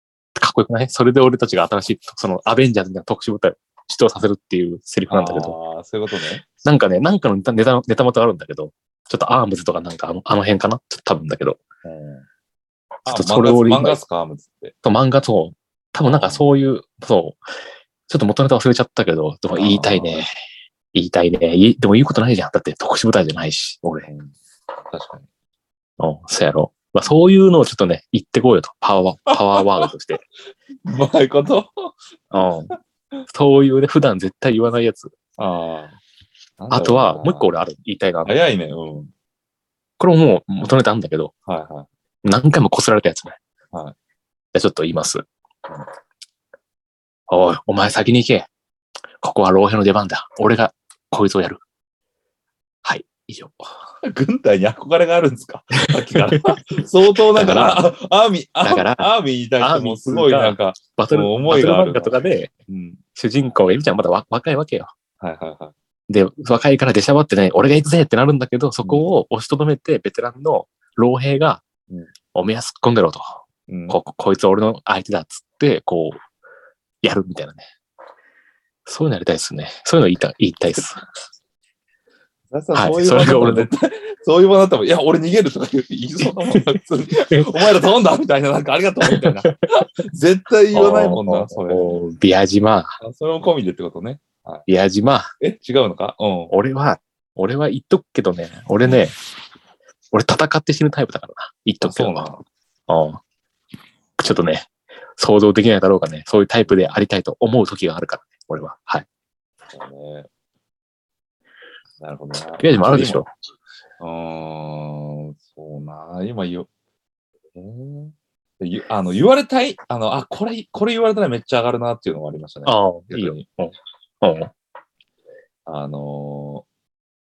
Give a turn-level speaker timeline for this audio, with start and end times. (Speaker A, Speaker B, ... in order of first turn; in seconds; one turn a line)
Speaker A: 0.3-5.5
Speaker B: 5.1-6.4
Speaker A: 6.6-11.6
Speaker B: 11.8-12.2
Speaker B: 13.1-14.7
Speaker A: 13.1-14.0
Speaker A: 14.8-17.4
Speaker B: 16.1-16.4
Speaker A: 18.1-20.3
Speaker B: 19.5-20.3
Speaker A: 20.9-24.1
Speaker B: 24.1-25.3
Speaker A: 26.0-30.2
Speaker B: 29.3-29.9
Speaker B: 30.9-32.0
Speaker A: 32.3-32.7
Speaker B: 32.7-33.2
Speaker A: 33.3-35.1
Speaker B: 35.4-36.0
Speaker B: 36.6-37.5
Speaker A: 36.7-38.4
Speaker B: 38.2-39.1
Speaker A: 40.0-41.3
Speaker B: 41.5-41.9
Speaker A: 42.2-43.4
Speaker A: 44.5-45.2
Speaker A: 47.3-48.5
Speaker A: 49.2-51.6
Speaker A: 52.8-53.7
Speaker B: 54.0-62.2
Speaker A: 56.1-56.6
Speaker A: 57.3-57.9
Speaker A: 58.6-62.5
Speaker B: 62.7-63.0
Speaker A: 63.2-64.9
Speaker B: 65.2-65.7
Speaker A: 66.1-71.6
Speaker A: 72.3-76.2
Speaker B: 73.7-74.0
Speaker A: 77.0-77.6
Speaker A: 78.9-81.0
Speaker B: 82.5-92.0
Speaker A: 82.7-83.7
Speaker A: 87.3-87.6
Speaker A: 89.0-89.5
Speaker A: 90.7-93.0
Speaker B: 93.0-94.7
Speaker A: 94.7-95.3
Speaker B: 95.4-96.5
Speaker A: 96.5-99.1
Speaker A: 100.1-102.3
Speaker B: 101.8-102.4
Speaker A: 102.9-103.2
Speaker A: 104.2-109.1
Speaker B: 106.7-107.0
Speaker B: 109.7-110.3
Speaker B: 112.0-113.2
Speaker A: 112.6-113.3
Speaker B: 114.0-116.7
Speaker B: 117.6-123.4
Speaker A: 122.7-124.5
Speaker B: 125.7-126.7